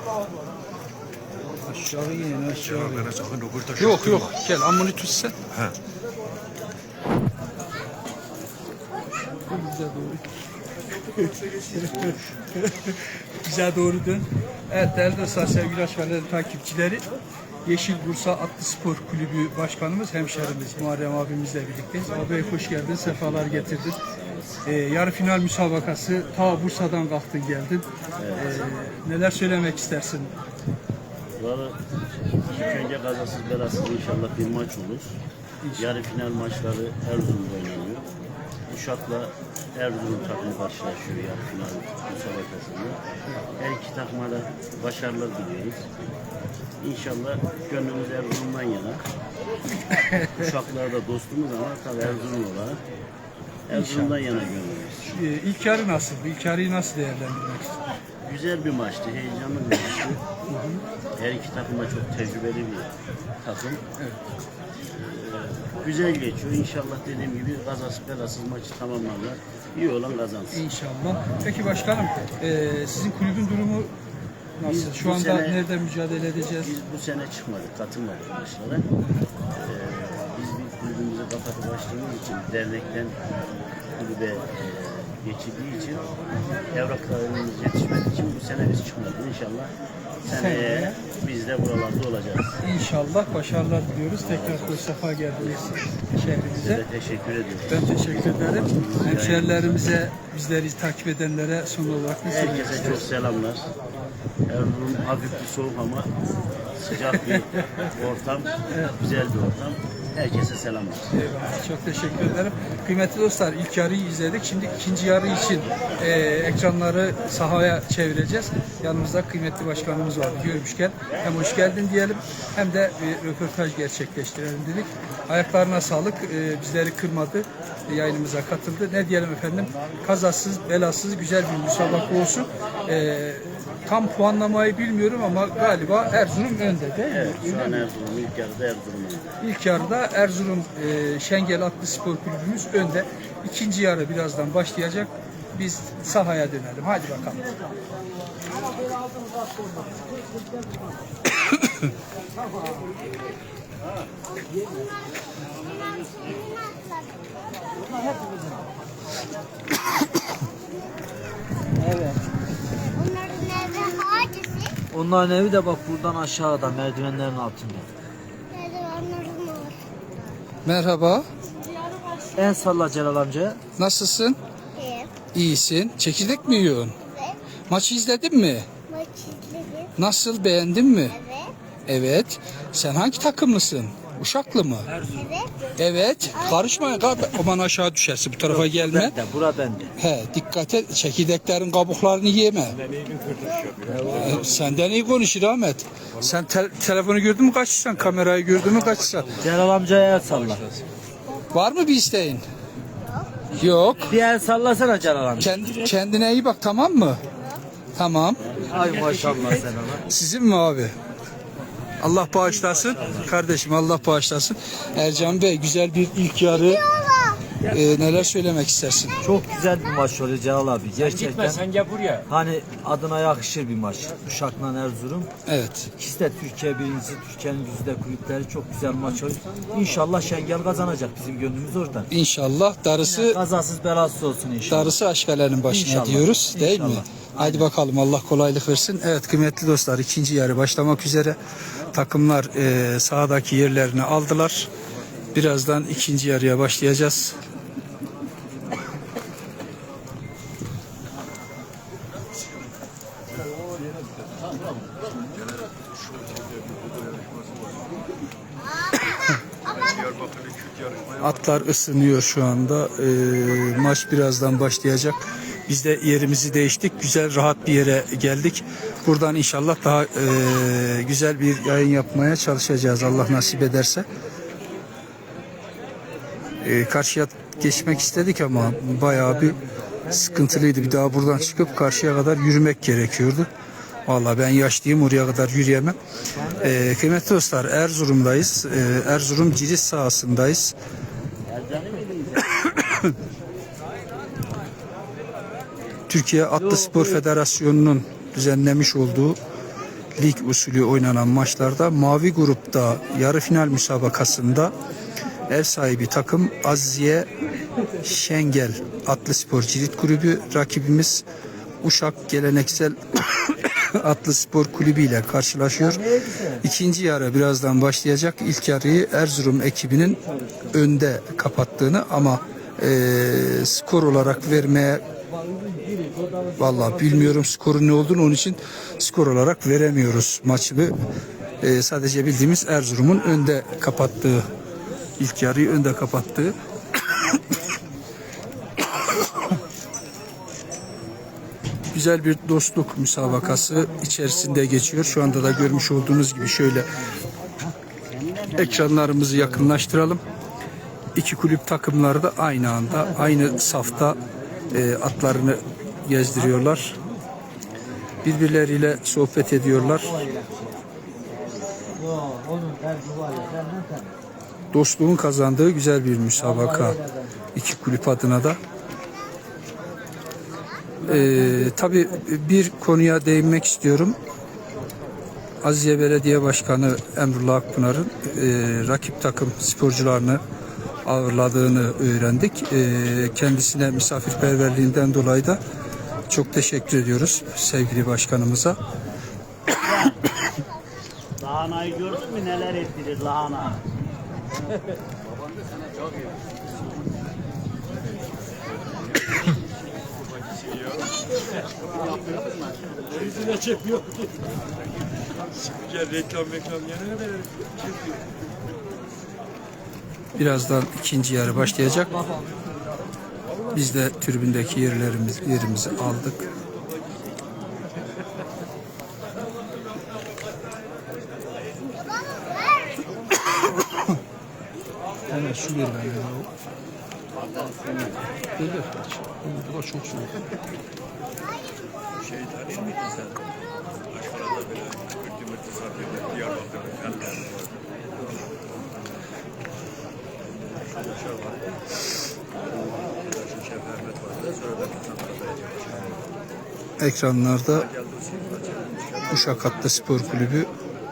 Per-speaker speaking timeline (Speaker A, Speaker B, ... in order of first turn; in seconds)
Speaker A: 1.6-3.2, 3.7-5.6, 9.3-10.2, 11.7-17.1, 17.6-24.0, 24.6-30.3, 35.6-35.9, 49.9-50.5, 53.7-54.1, 55.0-57.9, 60.5-60.8, 70.5-73.9, 74.6-76.7, 90.3-91.0, 92.6-96.8, 97.7-103.0, 111.1-137.5, 139.4-147.5, 151.5-151.8, 170.6-171.3, 173.8-174.4, 175.3-177.0, 177.7-178.7, 180.0-181.2, 181.9-184.9, 185.8-189.2, 190.0-192.8, 194.1-199.4, 201.5-202.4, 203.5-204.1, 205.4-207.2, 207.9-208.4, 210.1-210.9, 212.0-216.8, 217.6-219.2, 225.4-225.9, 232.1-233.4, 234.7-241.4, 241.9-244.7, 245.3-247.4, 261.2-274.1, 276.6-283.5, 284.1-286.0, 286.6-290.7, 292.7-293.1, 296.1-299.4, 300.1-304.7, 305.5-307.3, 308.0-311.2, 311.8-320.2, 320.7-325.0, 326.6-330.9, 331.6-334.4, 335.2-337.6, 338.9-339.5, 341.9-347.0, 348.5-350.2, 351.1-357.0, 358.2-360.2, 364.7-367.0, 367.5-368.6, 371.0-374.2, 375.6-380.4, 381.0-385.6, 386.3-388.8, 410.3-412.2, 413.7-416.5, 425.3-426.5, 428.6-430.4, 447.0-448.0, 449.3-450.7
Speaker B: 2.8-3.9, 192.8-194.2, 221.2-222.2, 255.8-257.7, 259.8-261.2, 400.5-401.0, 403.1-404.4, 405.5-408.2, 432.2-433.4, 434.1-437.6, 441.0-441.6, 443.1-446.0, 448.4-448.9
Speaker C: 22.7-24.7, 28.2-28.7, 31.4-35.2, 35.7-38.0, 38.7-43.0, 43.5-45.9, 46.8-49.0, 50.4-52.8, 53.7-55.2, 58.2-60.2, 61.2-63.8, 64.9-70.6, 74.6-75.6, 76.6-78.9, 79.5-89.7, 90.2-92.6, 94.2-96.0, 96.5-99.7, 102.2-103.7, 104.5-111.2, 137.1-139.4, 208.4-208.8, 291.5-292.7, 348.0-348.9, 389.8-390.3, 391.4-393.8
Speaker D: 156.0-157.3, 162.7-164.7, 168.5-169.8, 174.8-175.1, 177.1-177.4, 178.9-179.9, 181.1-181.5, 185.0-185.7, 216.8-217.5, 259.7-260.1
Speaker E: 158.1-158.4, 161.8-162.2, 164.9-167.9, 172.3-173.6, 188.4-189.9, 193.8-194.4, 199.4-200.8, 204.0-205.6, 208.6-210.1, 219.2-221.7, 222.2-225.3, 226.0-232.1, 233.0-235.0, 235.7-237.7, 279.5-281.7, 286.4-286.7, 296.6-297.2, 315.8-316.6, 320.3-320.7, 325.5-326.9, 359.8-360.8, 361.9-364.2, 366.4-367.4